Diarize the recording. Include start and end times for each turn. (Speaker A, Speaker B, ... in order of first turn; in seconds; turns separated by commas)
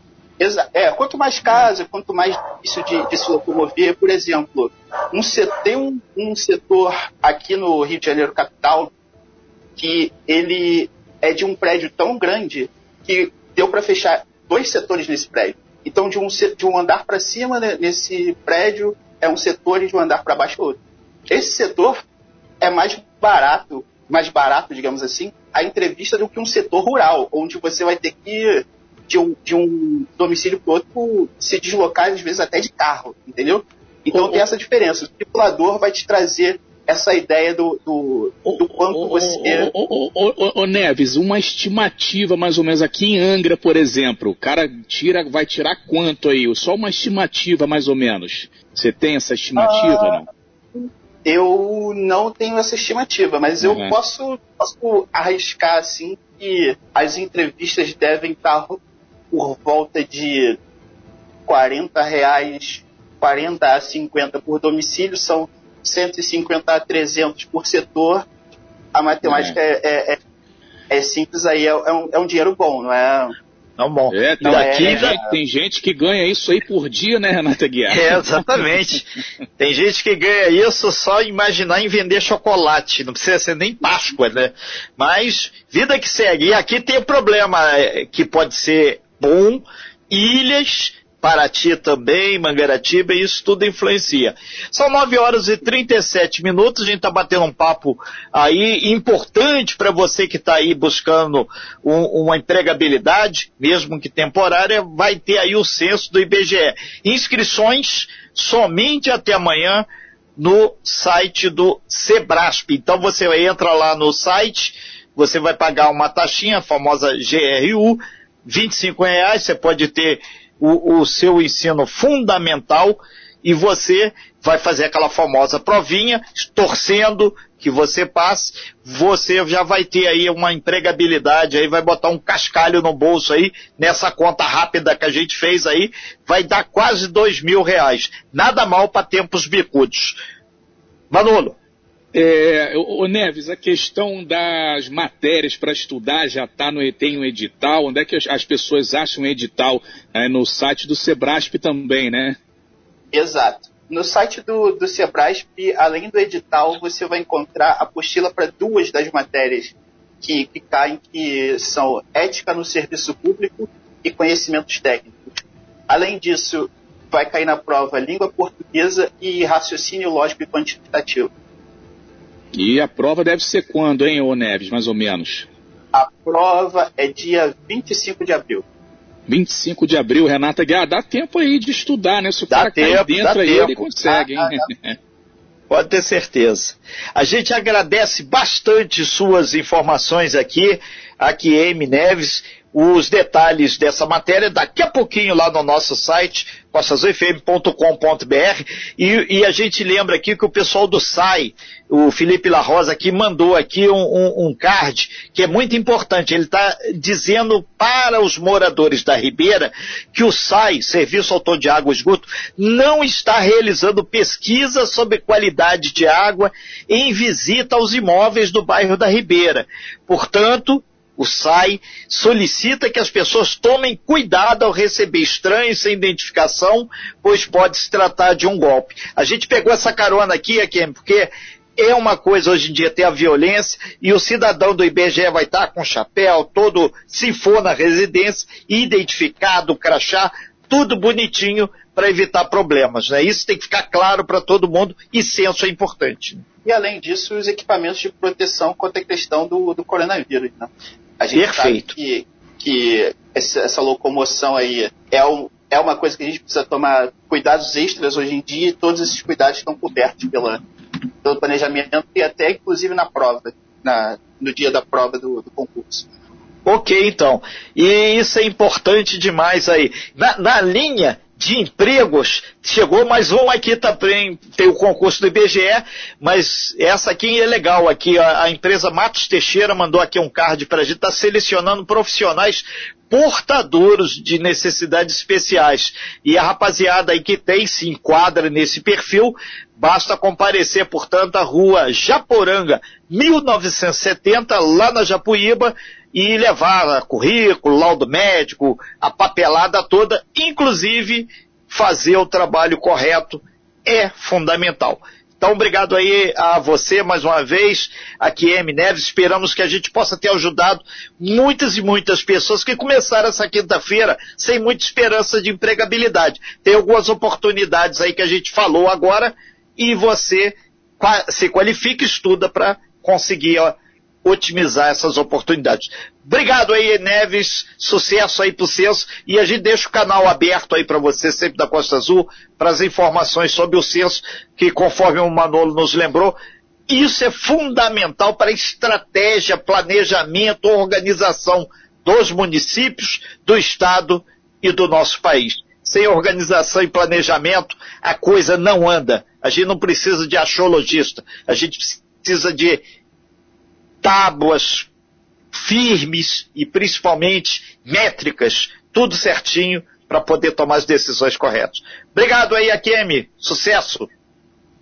Speaker A: 0.4-8.9, Speaker A: 9.8-20.8, Speaker A: 21.3-22.0, Speaker A: 22.6-39.7, Speaker B: 34.1-34.4, Speaker B: 38.5-50.3, Speaker A: 49.6-50.2, Speaker A: 50.8-58.8, Speaker B: 53.6-54.0, Speaker A: 59.3-60.6, Speaker A: 61.5-68.2, Speaker A: 68.9-70.2, Speaker B: 69.2-69.6, Speaker A: 70.9-73.3, Speaker C: 73.8-75.2, Speaker B: 74.1-78.7, Speaker A: 74.5-75.4, Speaker C: 77.9-79.1, Speaker C: 79.6-140.2, Speaker C: 141.1-141.6, Speaker B: 142.1-152.4, Speaker A: 153.1-171.3, Speaker B: 172.5-175.5, Speaker A: 175.9-178.6, Speaker B: 179.3-185.0, Speaker C: 182.5-183.9, Speaker A: 184.1-184.7, Speaker C: 185.7-246.4, Speaker A: 246.7-260.6, Speaker C: 251.3-251.9, Speaker A: 261.2-266.1, Speaker C: 266.6-336.4, Speaker C: 336.9-352.8, Speaker C: 354.0-354.9, Speaker C: 355.5-364.1